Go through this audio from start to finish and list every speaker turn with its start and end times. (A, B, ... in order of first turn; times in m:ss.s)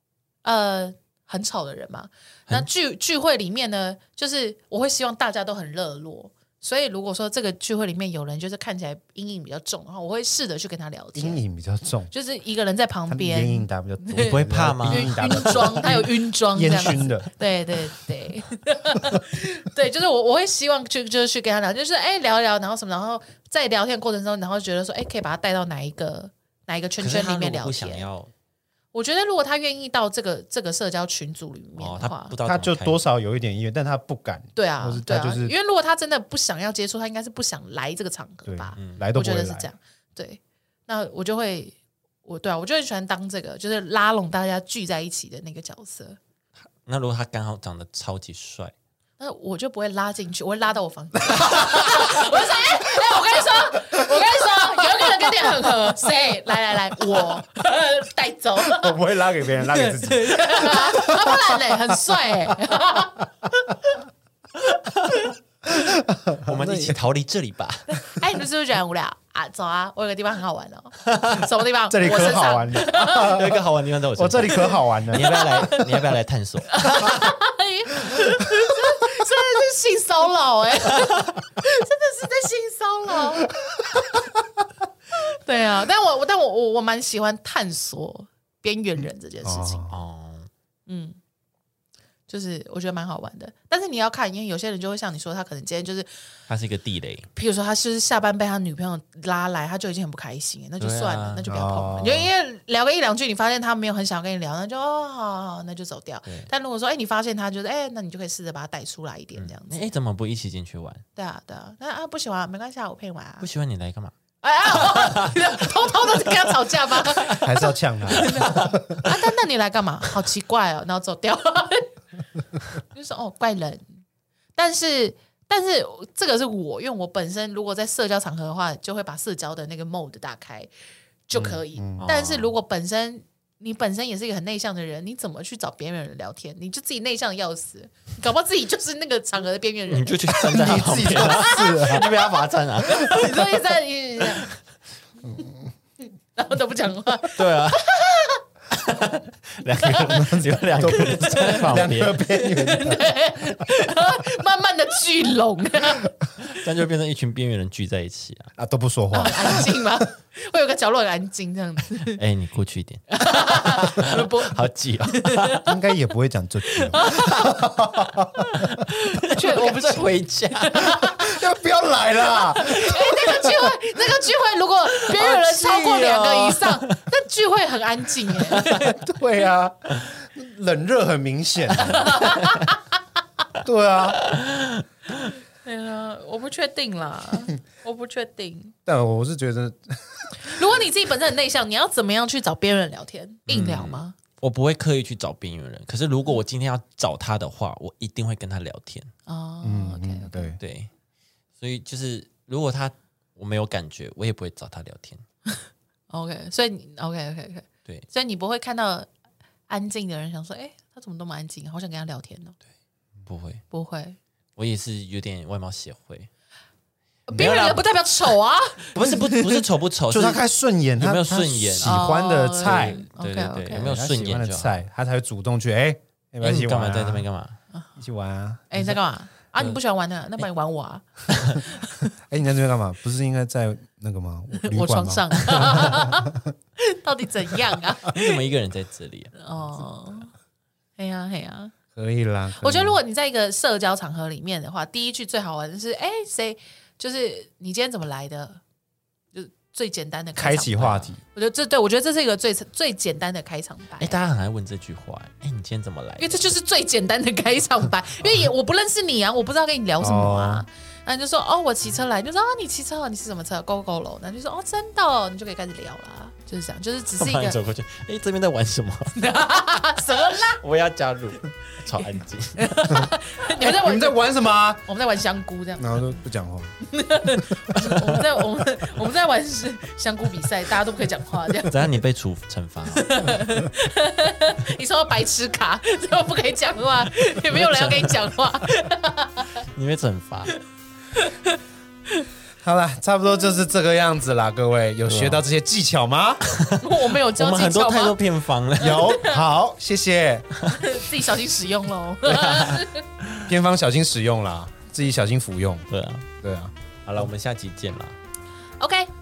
0:00.4-0:11.4 A
0:11.1-0:12.1 B
0:12.1-0:28.0 A
0:13.1-0:17.3 B
0:14.2-0:15.9 C
0:27.0-0:28.3 C
0:28.9-0:32.3 A
0:31.8-0:33.0 C
0:32.4-0:35.5 B
0:34.6-0:46.2 A
0:38.5-0:39.7 B
0:38.8-0:39.0 C
0:46.8-0:48.7 C
0:49.2-0:59.0 A
0:51.3-0:52.3 B
0:53.8-0:55.9 B
0:58.6-1:02.0 B
0:59.6-1:04.0 A
1:05.7-1:07.0 B
1:06.4-1:08.2 C
1:07.9-1:13.4 A
1:11.0-1:11.4 C
1:11.9-1:13.6 B
1:12.9-1:17.2 C
1:14.2-1:15.4 B
1:14.6-1:16.0 A
1:16.7-1:23.5 A
1:18.1-1:19.0 B
1:20.9-1:21.3 C
1:25.3-1:29.9 A
1:29.4-1:30.0 B
1:29.9-1:30.5 C
1:30.9-1:31.2 A
1:32.3-1:36.1 A
1:36.5-1:37.3 C
1:37.4-1:49.9 A
1:40.8-1:41.4 C
1:41.4-1:42.3 B
1:49.3-1:51.0 C
1:51.2-1:53.5 A
1:53.4-1:54.2 C
1:54.4-2:01.9 A
1:54.7-1:55.7 C
1:57.4-1:59.0 B
1:58.2-1:58.5 C
2:02.8-2:03.8 A
2:04.6-2:10.7 A
2:11.3-2:22.0 A
2:11.4-2:12.5 C
2:11.4-2:12.0 B
2:19.9-2:23.5 C
2:20.5-2:22.1 B
2:22.8-2:24.5 A
2:26.3-2:28.4 A
2:27.3-2:27.9 C
2:28.7-2:32.2 C
2:29.8-2:31.6 A
2:30.1-2:33.2 B
2:32.2-2:36.1 A
2:36.4-2:38.5 C
2:38.6-2:39.8 B
2:39.1-2:42.2 A
2:42.1-2:45.6 C
2:43.1-2:45.8 A
2:45.6-2:48.6 B
2:46.7-2:47.6 A
2:48.5-2:51.4 A
2:48.8-2:51.0 C
2:50.9-2:53.8 B
2:52.2-2:58.9 A
2:54.9-2:57.0 C
2:58.4-2:59.0 C
2:58.8-3:02.4 B
3:01.7-3:02.7 A
3:03.6-3:04.2 B
3:04.2-3:05.3 C
3:05.6-3:08.7 A
3:08.8-3:10.6 B
3:10.4-3:14.2 A
3:13.5-3:19.1 C
3:19.3-3:20.6 A
3:19.6-3:20.6 B
3:20.6-3:20.9 C
3:21.6-3:25.2 C
3:25.5-3:29.1 A
3:29.7-3:32.6 A
3:33.2-3:33.6 C
3:33.7-3:34.2 A
3:34.6-3:36.3 C
3:37.3-3:39.6 A
3:37.3-3:37.8 B
3:38.9-3:40.4 C
3:40.1-3:43.0 B
3:41.0-3:44.8 C
3:41.8-3:43.9 A
3:43.7-3:47.2 B
3:46.4-3:47.6 C
3:48.0-3:48.9 B
3:48.7-3:52.1 A
3:51.3-3:51.6 C
3:52.3-3:56.5 B
3:54.6-3:58.4 A
3:58.0-3:59.4 C
3:59.4-4:00.3 A
4:01.0-4:01.8 A
4:01.9-4:03.0 B
4:02.6-4:08.6 A
4:09.3-4:14.2 A
4:10.4-4:11.2 B
4:14.0-4:16.4 C
4:16.2-4:27.6 A
4:20.0-4:20.6 B
4:27.1-4:29.1 C
4:29.2-4:30.6 A
4:30.6-4:32.8 C
4:32.6-4:34.2 A
4:32.9-4:34.8 B
4:34.8-4:36.1 A
4:35.8-4:36.7 B
4:36.8-4:41.9 A
4:37.7-4:38.2 C
4:41.6-4:43.3 C
4:42.9-4:49.5 A
4:47.5-4:48.2 C
4:49.7-4:50.6 C
4:51.1-4:51.6 A
4:52.6-4:56.4 B
4:55.1-4:55.4 C
4:56.4-4:59.2 C
4:56.8-4:58.2 A
4:58.8-5:00.5 B
4:59.0-4:59.4 A
5:00.6-5:01.0 C
5:00.7-5:03.0 A
5:02.2-5:03.5 C
5:03.5-5:05.8 B
5:05.9-5:06.2 C
5:06.4-5:06.7 B
5:07.0-5:08.2 C
5:08.8-5:09.1 A